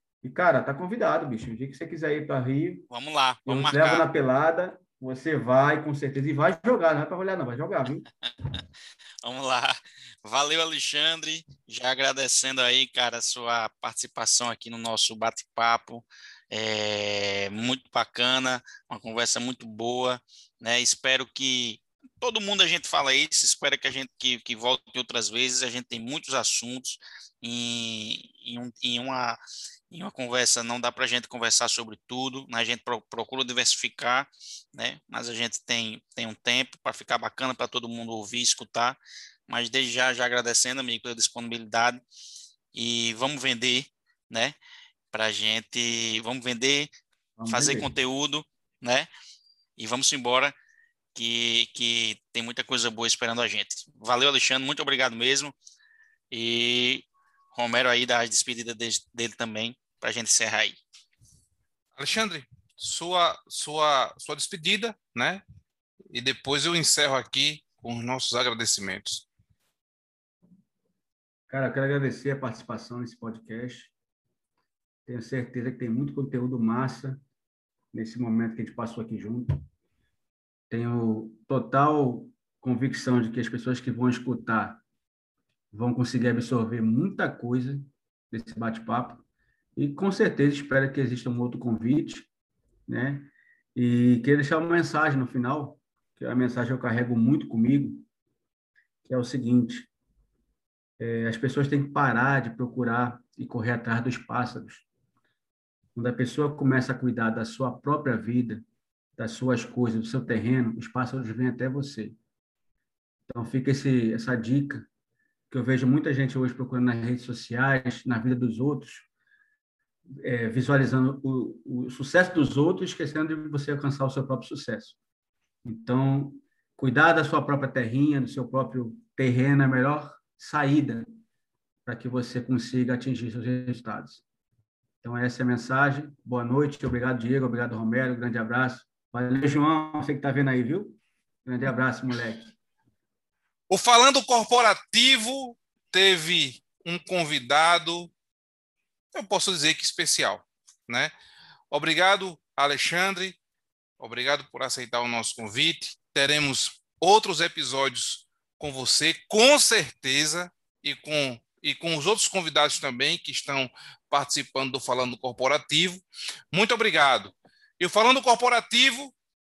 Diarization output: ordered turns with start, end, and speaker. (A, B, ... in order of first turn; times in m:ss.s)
0:00.2-0:02.9 A
0:02.9-0:04.0 B
0:03.4-0:08.0 A
0:08.2-0:08.6 B
0:09.2-0:29.4 B
0:29.9-0:42.0 B
0:42.7-0:44.6 B
0:45.1-0:46.9 B
0:47.4-0:47.9 A
0:47.5-0:49.1 B
0:49.8-0:50.6 B
0:51.1-0:55.6 B
0:56.3-1:00.8 B
1:02.0-1:05.4 C
1:06.1-1:09.3 C
1:11.5-1:13.9 A
1:15.0-1:17.2 A
1:17.9-1:19.6 A
1:20.7-1:24.8 A
1:25.7-1:29.2 A
1:29.8-1:32.3 A
1:32.9-1:38.0 A
1:39.0-1:39.9 A
1:41.0-1:44.8 A
1:46.0-1:48.6 A
1:49.2-1:52.1 A
1:53.3-1:54.8 A
1:55.5-1:59.0 A
2:00.2-2:05.0 A
2:05.6-2:11.1 A
2:11.8-2:14.2 A
2:15.0-2:22.5 A
2:23.7-2:28.1 C
2:29.1-2:31.1 C
2:31.7-2:33.4 C
2:34.0-2:49.1 C